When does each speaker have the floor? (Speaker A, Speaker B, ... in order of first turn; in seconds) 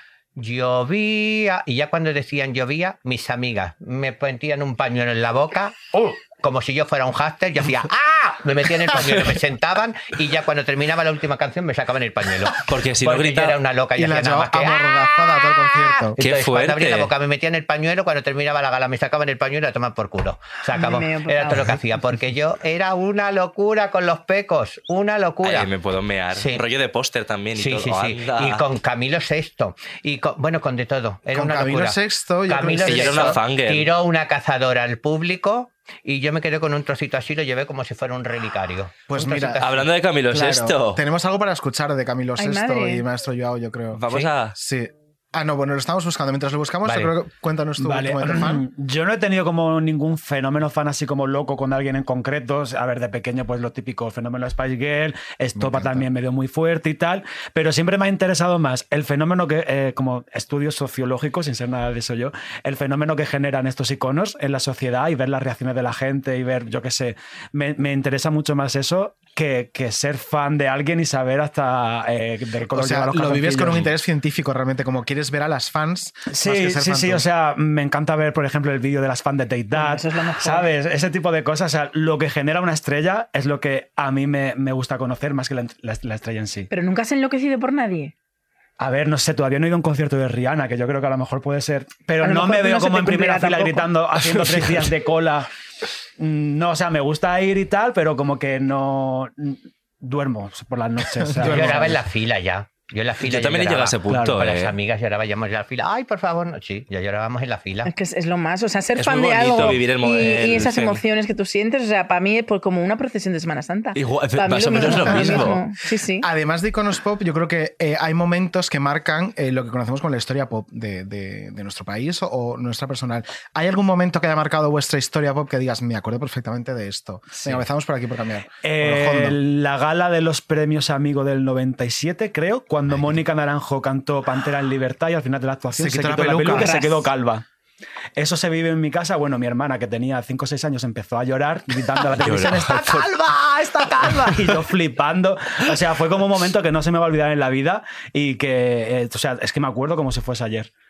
Speaker A: 0.4-25.7, 26.3-26.6, 27.6-39.9, 46.9-47.1, 101.4-107.9
Speaker B: 12.7-13.6, 16.2-17.1, 25.4-28.6, 32.8-33.9, 39.6-41.0, 44.0-44.6, 103.2-104.8, 109.0-111.0, 114.0-115.6, 142.2-143.1
Speaker C: 14.0-16.2, 31.3-33.4, 39.1-39.7, 40.3-48.6, 55.6-56.1, 72.7-77.2, 101.2-102.0, 114.7-115.6, 116.2-129.4, 135.8-136.7
Speaker D: 20.7-21.7, 42.4-43.0, 79.7-80.7, 86.7-88.1, 92.2-93.9, 107.8-116.3, 136.5-137.1
Speaker E: 47.8-73.9, 76.3-86.7, 88.8-95.5, 96.2-102.0, 104.1-104.3, 127.3-127.6, 128.6-137.4, 138.2-150.7